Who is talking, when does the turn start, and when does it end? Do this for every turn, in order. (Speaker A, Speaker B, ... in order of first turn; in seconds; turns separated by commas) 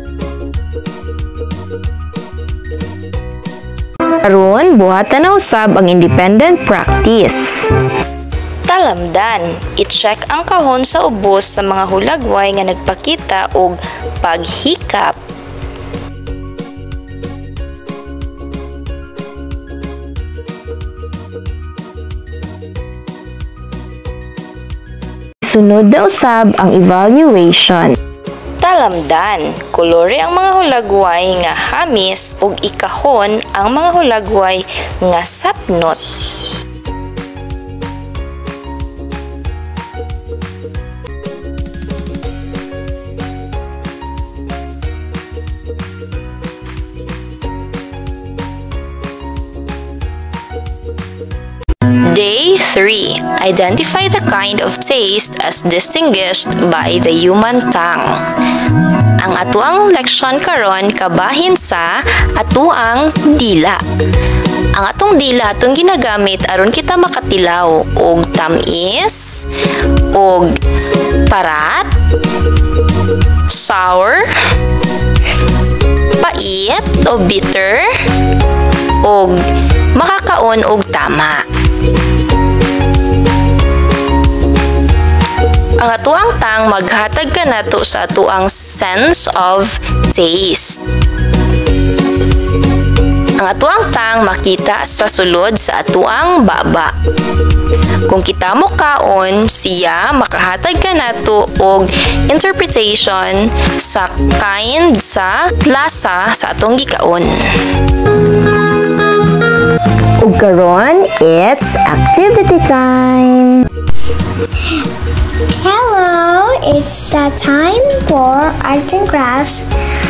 Speaker A: 4.2-7.7, Speaker B: 8.7-15.2, Speaker A: 25.4-28.0, Speaker B: 28.6-36.0, Speaker B: 52.1-58.1, Speaker B: 59.2-63.8, Speaker B: 64.8-69.4, Speaker B: 70.2-70.5, Speaker B: 71.3-71.9, Speaker B: 73.5-74.3, Speaker B: 76.2-77.9, Speaker B: 79.0-79.3, Speaker B: 80.0-81.4, Speaker B: 85.8-90.8, Speaker B: 93.4-96.9, Speaker B: 98.1-107.3, Speaker A: 110.2-113.7, Speaker C: 115.5-119.7